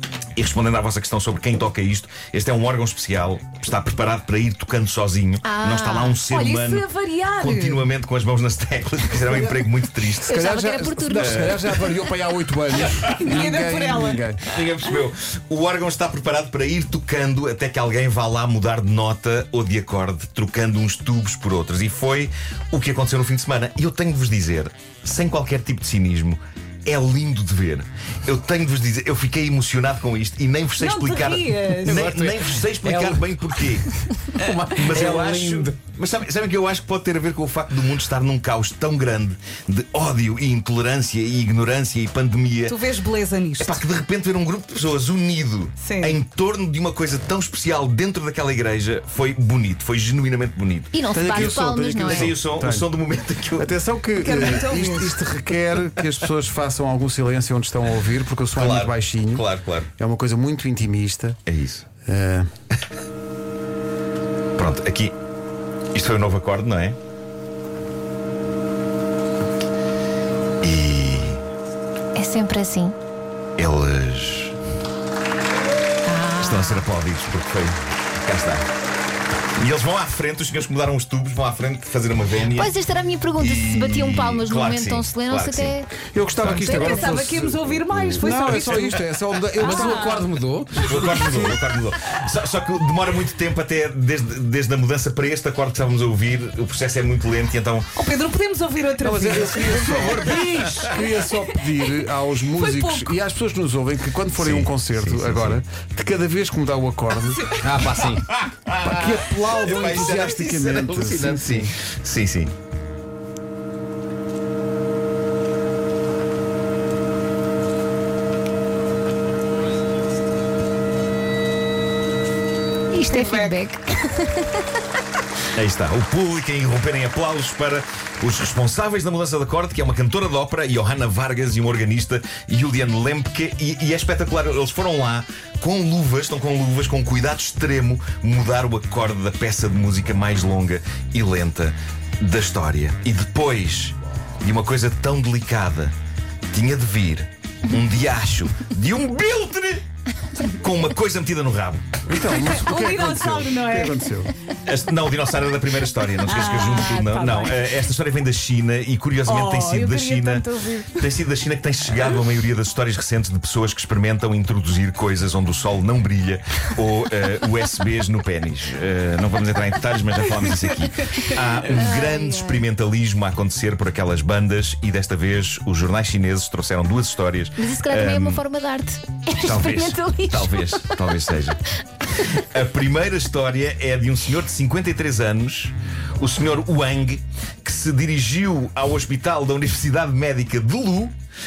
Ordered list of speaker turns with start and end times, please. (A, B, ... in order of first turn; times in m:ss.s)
0:00.4-0:06.9 A
0:05.4-0:06.2 B
0:06.3-0:07.8 C
0:07.4-0:10.4 A
0:10.2-0:14.4 D
0:10.3-0:12.1 B
0:11.1-0:11.7 A
0:13.1-0:14.2 C
0:14.5-0:33.9 A
0:30.8-0:32.1 C
0:31.8-0:33.3 E
0:34.4-0:35.8 E
0:34.7-0:42.8 A
0:42.7-0:43.8 C
0:43.6-0:53.7 A
0:45.8-0:46.2 C
0:50.9-0:52.3 B
0:51.1-0:52.9 D
0:53.6-1:01.4 D
0:54.2-0:55.2 C
0:58.6-0:59.9 A
1:01.5-1:01.9 A
1:02.0-1:02.5 D
1:04.6-1:05.2 A
1:06.0-1:07.0 A
1:10.6-1:11.4 A
1:12.2-1:13.0 B
1:13.6-1:14.6 A
1:16.1-1:16.9 B
1:16.4-1:18.7 A
1:19.6-1:22.7 A
1:22.5-1:27.1 B
1:23.4-1:25.8 A
1:26.1-1:31.6 D
1:26.4-1:27.6 A
1:26.6-1:29.0 C
1:29.6-1:30.3 C
1:29.6-1:31.4 E
1:30.8-1:37.9 A
1:38.0-1:40.2 C
1:39.0-1:47.4 D
1:39.9-1:41.0 A
1:42.4-1:43.2 C
1:44.4-1:45.6 A
1:47.1-1:47.8 C
1:47.6-1:48.3 E
1:48.3-1:52.5 A
1:48.8-1:51.7 D
2:02.9-2:04.8 B
2:03.1-2:03.6 C
2:05.6-2:25.9 A
2:26.5-2:29.8 A
2:30.4-2:31.9 A
2:32.1-2:34.3 D
2:32.2-2:34.1 C
2:34.6-2:58.4 A
2:36.2-2:37.8 C
2:39.2-2:41.1 C
2:51.6-2:52.6 B
2:57.6-3:01.0 B
2:59.4-3:01.6 A
3:02.1-3:11.2 A